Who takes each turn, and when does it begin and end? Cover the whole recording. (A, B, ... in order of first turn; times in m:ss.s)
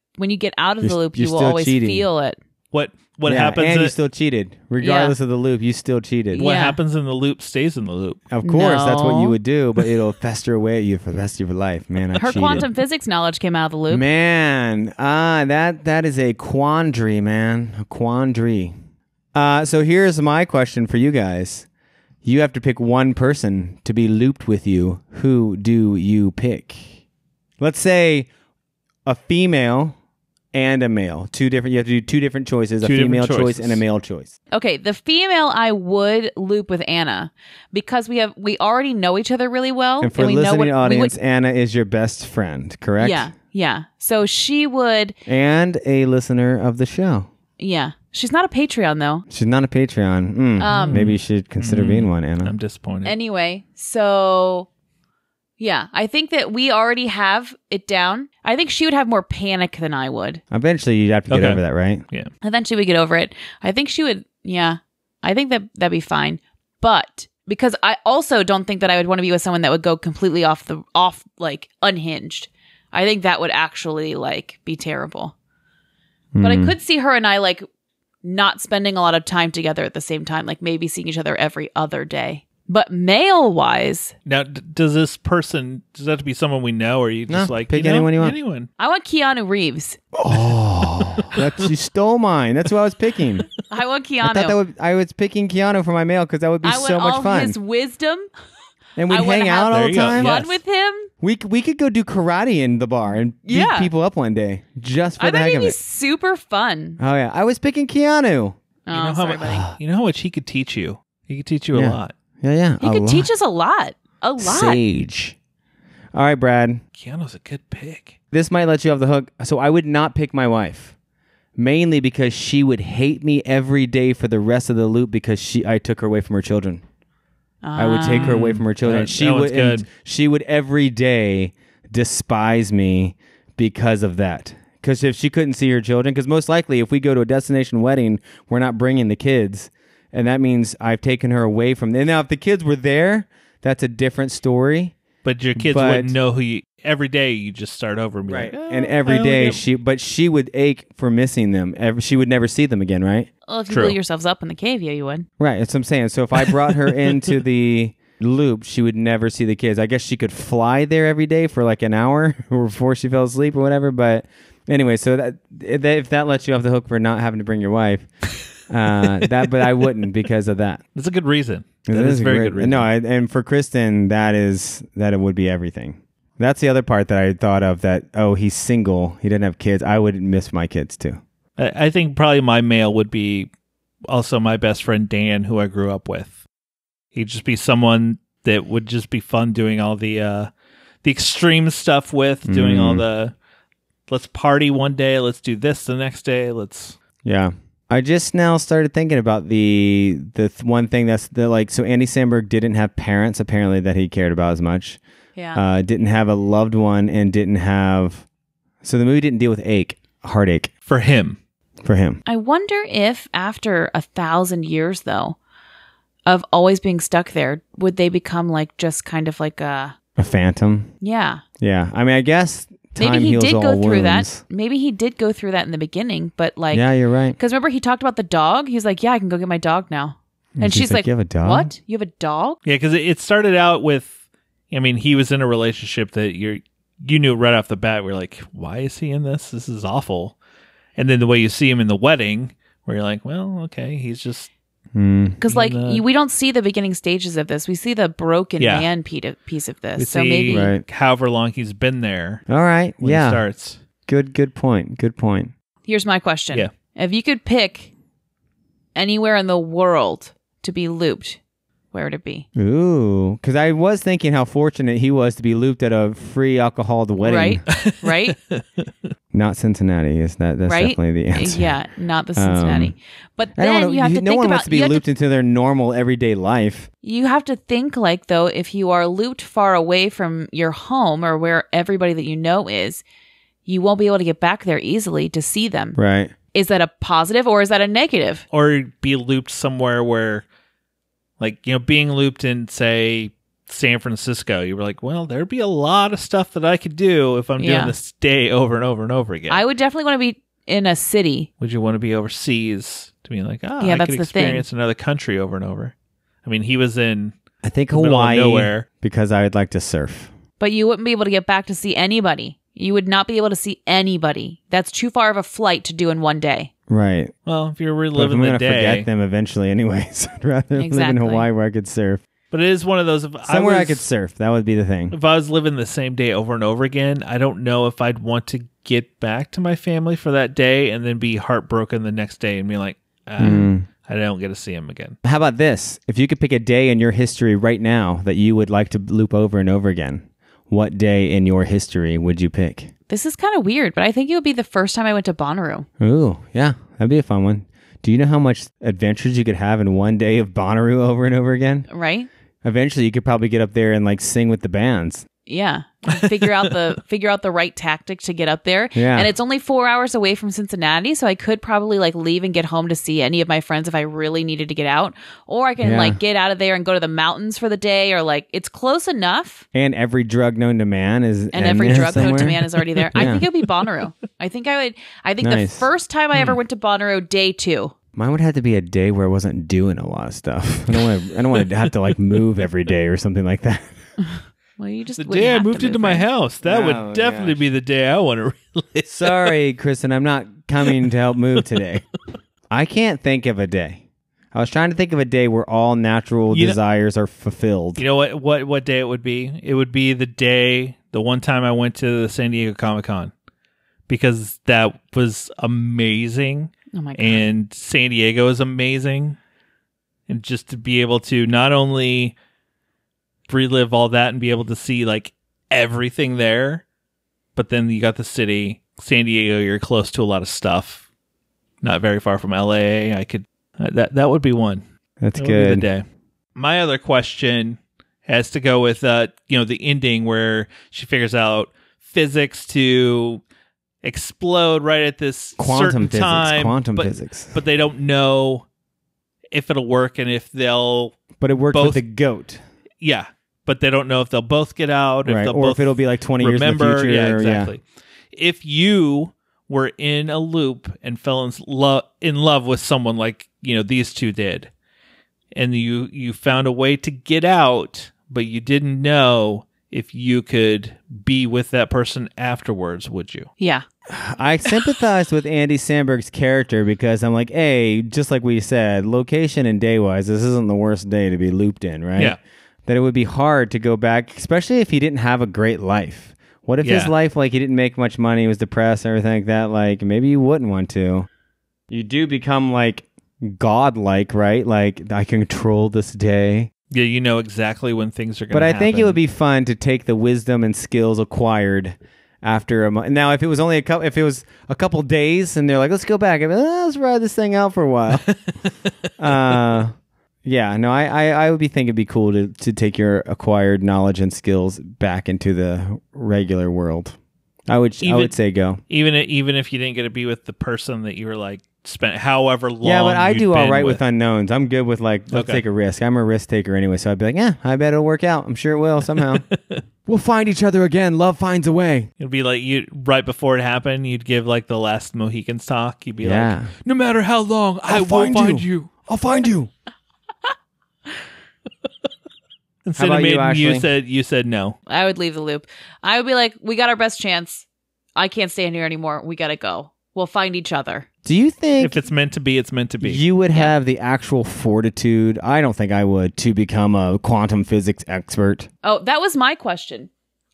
0:00.2-0:02.4 A
0:00.8-0:02.1 B
0:02.7-0:03.9 C
0:03.2-0:06.5 B
0:04.8-0:05.1 A
0:06.3-0:06.8 A
0:06.4-0:08.2 C
0:08.3-0:12.6 B
0:08.4-0:09.4 A
0:12.2-0:14.0 A
0:12.3-0:12.6 C
0:13.9-0:18.7 B
0:19.3-0:21.7 B
0:22.2-0:26.9 B
0:27.6-0:28.3 B
0:29.0-0:30.0 B
0:30.5-0:34.3 B
0:32.8-0:33.8 C
0:34.5-0:41.1 A
0:40.0-0:43.3 B
0:43.0-0:45.2 A
0:45.3-0:47.3 B
0:47.6-0:49.2 A
0:49.3-0:52.6 B
0:50.6-0:51.0 A
0:50.7-0:53.1 C
0:53.0-0:54.7 A
0:55.6-1:00.4 A
1:00.5-1:02.0 B
1:01.3-1:01.6 C
1:02.4-1:15.3 A
1:16.3-1:16.7 B
1:16.4-1:17.6 A
1:18.2-1:24.1 A
1:24.2-1:28.7 C
1:27.3-1:28.4 B
1:28.8-1:30.0 A
1:30.1-1:33.5 B
1:30.3-1:31.7 C
1:33.7-1:34.6 A
1:34.2-1:37.6 B
1:36.6-1:38.3 A
1:39.0-1:40.4 B
1:39.1-1:41.1 A
1:39.7-1:40.6 C
1:41.2-1:45.8 B
1:43.4-1:43.9 A
1:45.2-1:47.0 A
1:47.0-1:48.6 B
1:48.8-1:49.6 A
1:48.9-1:52.1 C
1:51.7-1:53.3 B
1:52.8-1:54.8 A
1:54.4-1:55.4 B
1:56.1-1:56.8 B
1:57.0-1:58.2 C
1:58.3-2:00.9 B
2:01.6-2:06.8 B
2:07.6-2:08.4 A
2:07.8-2:25.0 B
2:08.1-2:09.8 C
2:25.2-2:29.6 C
2:25.6-2:26.1 B
2:28.3-2:33.3 B
2:33.5-2:35.3 A
2:33.7-2:34.0 C
2:35.4-2:48.1 B
2:48.7-2:50.8 B
2:51.0-2:52.9 C
2:51.8-3:01.2 B
3:01.6-3:03.5 C
3:04.1-3:06.4 C
3:07.1-3:10.5 C
3:11.0-3:13.3 C
3:12.4-3:13.0 B
3:14.1-3:17.0 C
3:17.2-3:25.0 B
3:25.4-3:25.6 A
3:25.5-3:28.2 B
3:28.8-3:30.7 B
3:30.9-3:31.4 C
3:31.8-3:32.2 B
3:32.2-3:35.4 A
3:36.2-3:39.9 A
3:40.2-3:40.9 B
3:41.0-3:41.4 A
3:41.6-3:44.4 B
3:43.0-3:52.6 A
3:46.7-3:47.4 B
3:50.6-3:51.7 B
3:52.6-3:54.1 C
3:54.7-4:00.3 C
4:01.0-4:04.5 C
4:04.9-4:05.4 B
4:05.4-4:10.7 A
4:05.5-4:06.0 C
4:08.6-4:08.9 C
4:10.0-4:12.4 C
4:10.5-4:10.8 B
4:12.5-4:13.4 B
4:13.0-4:13.8 C
4:14.1-4:15.5 B
4:15.8-4:17.9 A
4:18.9-4:21.4 A
4:21.9-4:22.4 A
4:22.6-4:27.6 B
4:27.2-4:28.4 A
4:27.7-4:28.9 C
4:29.3-4:31.7 B
4:30.7-4:35.0 A
4:32.4-4:32.9 B
4:33.5-4:36.9 B
4:37.0-4:43.0 A
4:43.6-4:46.0 A
4:46.0-4:46.3 B
4:46.5-4:48.4 A
4:48.5-4:50.4 C
4:51.4-4:59.6 C
4:57.6-4:57.9 A
4:59.5-5:01.5 A
5:01.6-5:07.3 C
5:03.8-5:04.6 A
5:07.6-5:10.3 B
5:07.9-5:08.9 C
5:10.6-5:16.7 A
5:16.9-5:17.3 B
5:17.4-5:19.1 C
5:18.1-5:22.2 B
5:20.8-5:21.5 A
5:22.5-5:24.1 C
5:23.4-5:25.2 B
5:25.1-5:35.2 C
5:33.4-5:33.8 B
5:35.2-5:42.9 B
5:43.1-5:45.9 A
5:46.0-5:51.9 B
5:51.9-5:52.3 A
5:52.6-5:55.2 B
5:55.4-6:09.6 A
5:58.9-5:59.3 B
6:05.8-6:06.2 B
6:09.7-6:12.6 B
6:11.5-6:17.9 A
6:11.8-6:13.5 C
6:13.1-6:13.4 B
6:15.4-6:15.9 B
6:16.3-6:16.6 C
6:18.1-6:23.9 B
6:24.3-6:26.2 A
6:25.2-6:29.5 C
6:26.6-6:27.6 B
6:29.1-6:32.0 B
6:32.7-6:34.0 B
6:34.5-6:38.0 B
6:36.5-6:36.8 C
6:38.0-6:43.3 C
6:44.1-6:49.4 C
6:46.9-6:47.4 A
6:50.3-6:52.3 C
6:53.5-6:56.8 C
6:57.6-7:01.0 C
7:01.8-7:04.8 C
7:05.2-7:05.9 B
7:05.4-7:06.0 C
7:06.6-7:13.4 C
7:14.0-7:18.6 C
7:15.6-7:17.6 B
7:19.5-7:21.2 C
7:21.4-7:22.6 B
7:21.7-7:22.0 C
7:23.0-7:27.8 C
7:25.2-7:27.7 B
7:28.3-7:34.7 C
7:35.5-7:43.5 C
7:43.6-7:43.8 A
7:44.1-8:01.3 B
7:56.8-7:57.1 C
8:01.9-8:06.7 B
8:06.9-8:09.2 C
8:08.5-8:18.3 B
8:19.2-8:19.9 B
8:20.4-8:27.2 B
8:27.7-8:28.8 B
8:28.0-8:28.3 C
8:28.9-8:34.0 C
8:32.8-8:39.4 B
8:35.3-8:35.6 C
8:39.2-8:39.8 C
8:40.1-8:42.1 B
8:42.2-8:49.1 C
8:46.2-8:46.7 B
8:47.9-8:49.7 B
8:52.8-8:54.8 C
8:53.0-8:53.9 B
8:54.9-8:57.6 A
8:58.2-9:01.0 A
9:01.2-9:02.0 B
9:01.8-9:03.2 C
9:03.0-9:08.7 B
9:08.8-9:10.1 A